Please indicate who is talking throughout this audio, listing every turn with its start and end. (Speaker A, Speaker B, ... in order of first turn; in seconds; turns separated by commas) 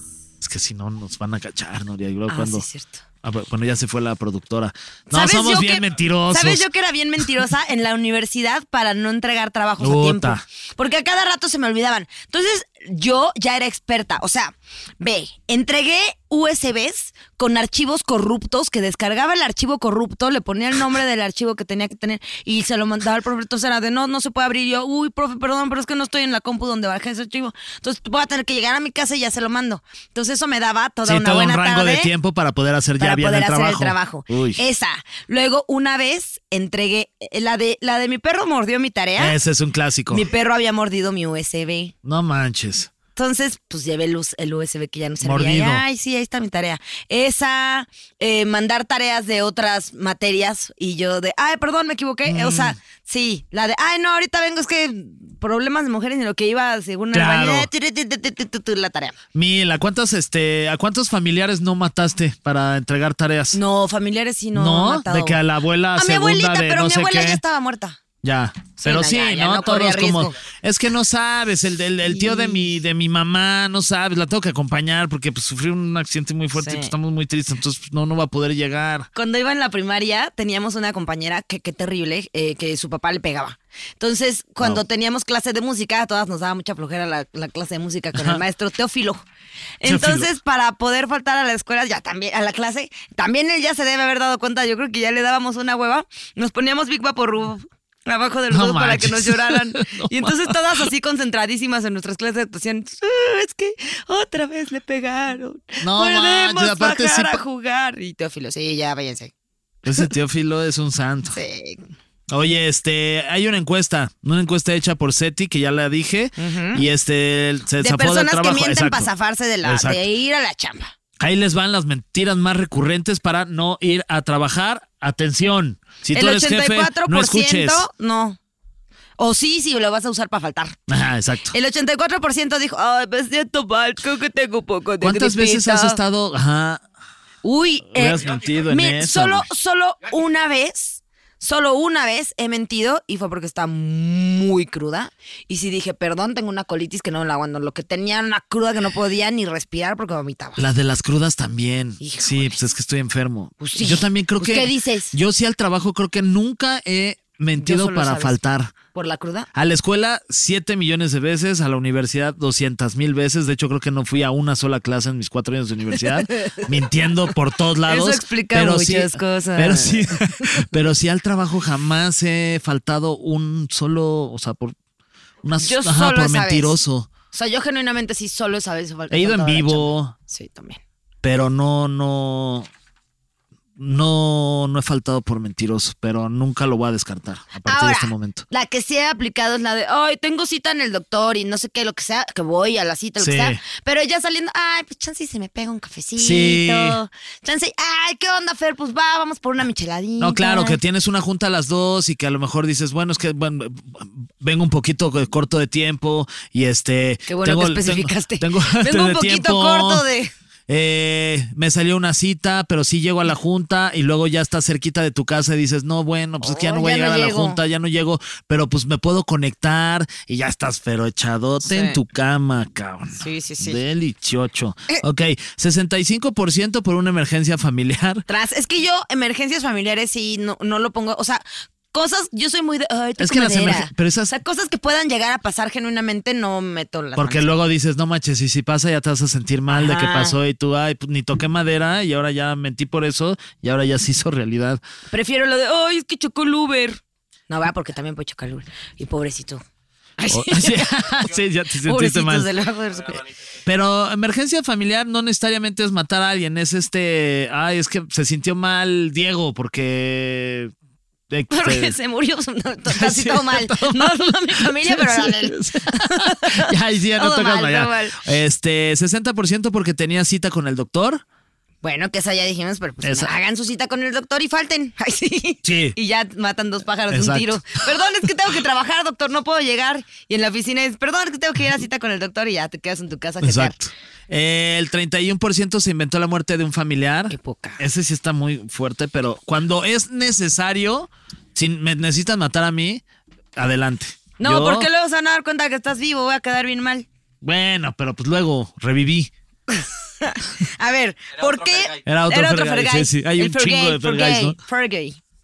Speaker A: 0.4-2.6, Speaker B: 2.3-3.0, Speaker A: 3.2-6.7, Speaker B: 5.1-32.1, Speaker A: 9.8-10.4, Speaker A: 31.0-34.6, Speaker B: 33.0-39.4, Speaker A: 39.2-40.2, Speaker B: 40.1-41.9, Speaker A: 42.0-42.9, Speaker B: 43.1-59.1, Speaker A: 45.2-45.8, Speaker A: 52.2-52.8, Speaker A: 57.1-57.7, Speaker A: 59.3-63.6, Speaker B: 63.5-65.4, Speaker A: 64.5-67.4, Speaker B: 66.0-68.0, Speaker A: 68.2-79.1, Speaker B: 68.8-70.3, Speaker B: 72.0-72.7, Speaker B: 76.5-76.9, Speaker B: 79.1-89.2, Speaker A: 88.1-88.4, Speaker B: 89.8-109.3, Speaker A: 89.8-90.3, Speaker A: 98.5-100.9, Speaker A: 105.8-107.4, Speaker A: 109.8-111.4, Speaker B: 111.3-111.9, Speaker A: 112.3-119.1, Speaker B: 116.4-116.8, Speaker B: 117.8-120.9, Speaker A: 119.6-120.0, Speaker A: 121.2-127.8, Speaker B: 126.1-128.4, Speaker B: 129.2-130.8, Speaker A: 130.9-131.6, Speaker B: 131.5-136.0, Speaker A: 135.0-136.8, Speaker B: 137.4-150.6, Speaker A: 137.9-139.5, Speaker A: 150.6-158.7, Speaker B: 152.0-152.6, Speaker B: 153.6-155.1, Speaker B: 157.6-158.4, Speaker B: 158.9-159.5, Speaker A: 159.5-174.7, Speaker B: 166.1-166.8, Speaker B: 167.9-170.7, Speaker A: 175.4-177.1, Speaker B: 175.6-176.8, Speaker B: 177.3-180.8, Speaker A: 179.1-180.1, Speaker A: 181.2-182.7, Speaker A: 183.8-188.4, Speaker B: 187.7-200.8, Speaker A: 193.2-193.6, Speaker A: 196.2-197.0, Speaker A: 200.2-210.0, Speaker B: 207.3-210.3, Speaker A: 210.7-228.2, Speaker B: 216.4-217.6, Speaker B: 221.6-222.0, Speaker B: 223.2-223.8, Speaker B: 228.3-237.5, Speaker A: 233.2-234.3, Speaker A: 237.2-244.8, Speaker B: 239.7-240.4, Speaker B: 245.1-249.6, Speaker B: 250.2-251.3, Speaker A: 250.3-252.5, Speaker B: 251.8-253.3, Speaker A: 253.6-260.7, Speaker A: 261.3-261.9, Speaker B: 261.5-268.2, Speaker A: 262.9-271.2, Speaker B: 271.8-283.8, Speaker A: 273.0-273.3, Speaker A: 275.6-275.9, Speaker A: 277.1-277.6, Speaker A: 283.4-293.0, Speaker B: 287.3-287.8, Speaker A: 293.6-294.9, Speaker B: 294.4-297.1, Speaker A: 297.4-299.3, Speaker B: 299.7-305.2, Speaker A: 302.0-304.6